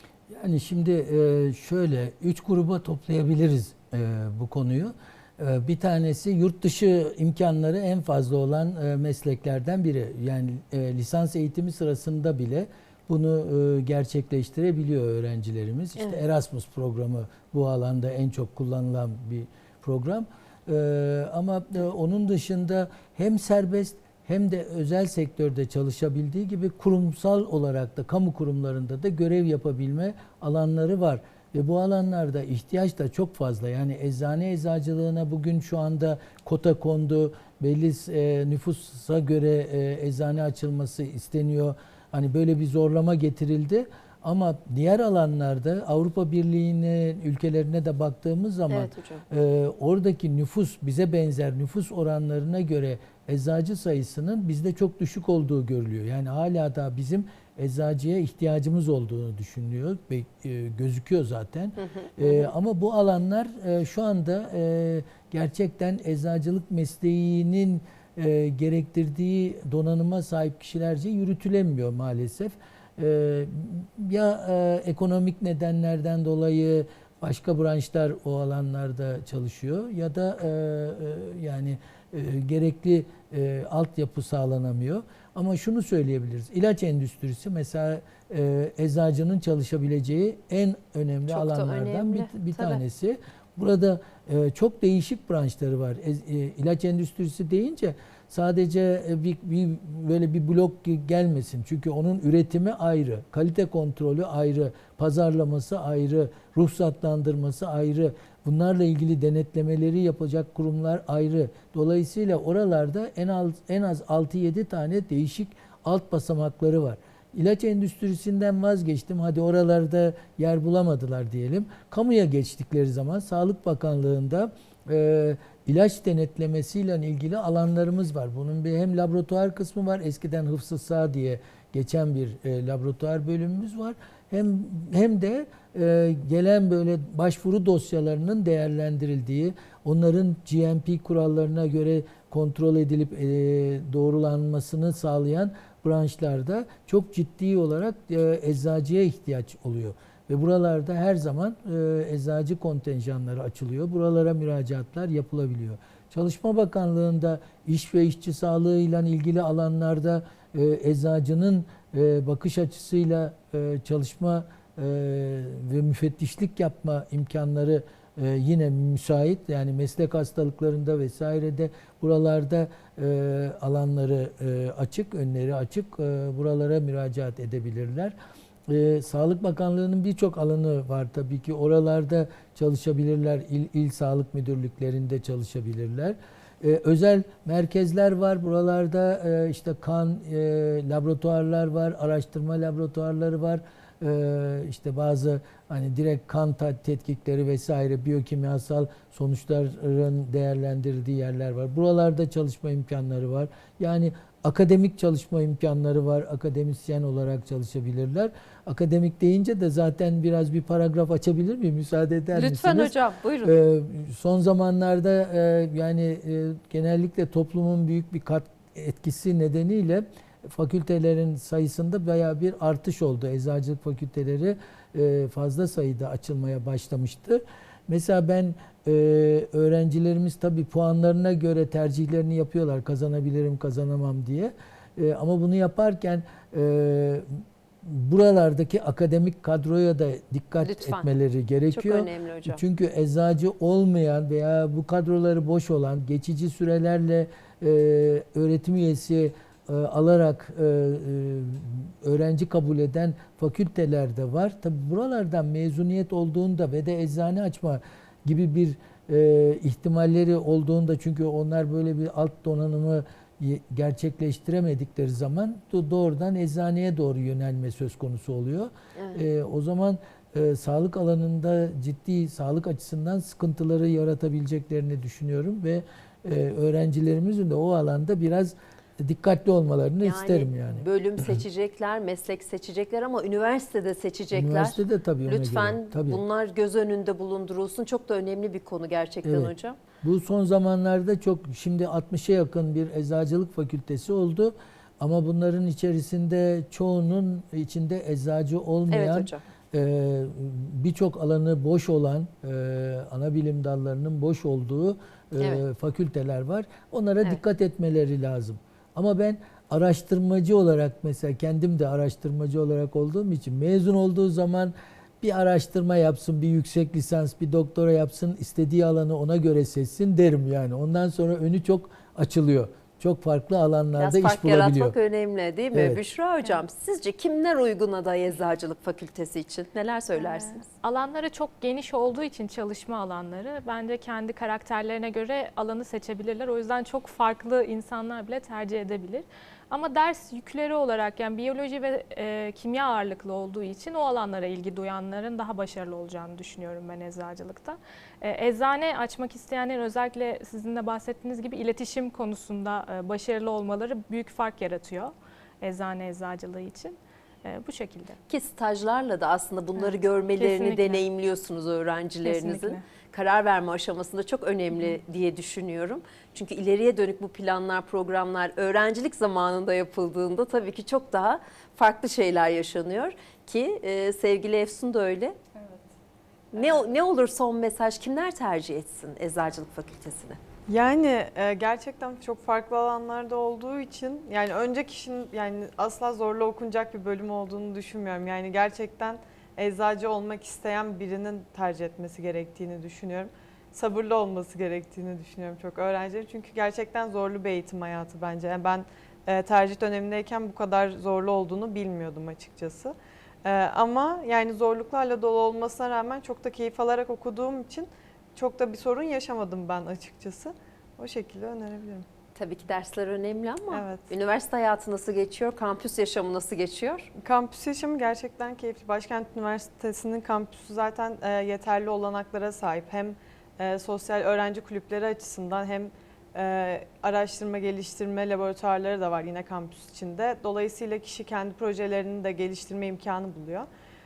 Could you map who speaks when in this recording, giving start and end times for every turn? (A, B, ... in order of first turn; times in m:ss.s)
0:00.3-2:58.1 A
0:48.7-0:49.2 B
1:01.8-1:02.5 B
1:31.3-1:32.8 B
2:58.7-3:57.3 A
3:32.3-3:33.6 B
3:57.8-4:41.4 A
4:00.6-4:01.1 B
4:01.7-4:02.6 B
4:29.0-4:29.2 B
4:40.0-4:49.8 B
4:44.3-4:46.2 A
4:49.2-5:25.0 A
4:58.9-4:59.4 B
5:24.0-5:30.7 B
5:25.7-5:26.0 A
5:30.3-5:58.2 C
5:58.3-6:15.4 B
5:59.8-6:01.0 C
6:02.2-6:02.8 C
6:15.6-6:15.9 D
6:16.5-6:20.4 B
6:20.7-6:52.0 D
6:52.4-6:57.1 B
6:53.7-6:54.1 D
6:57.2-7:13.7 D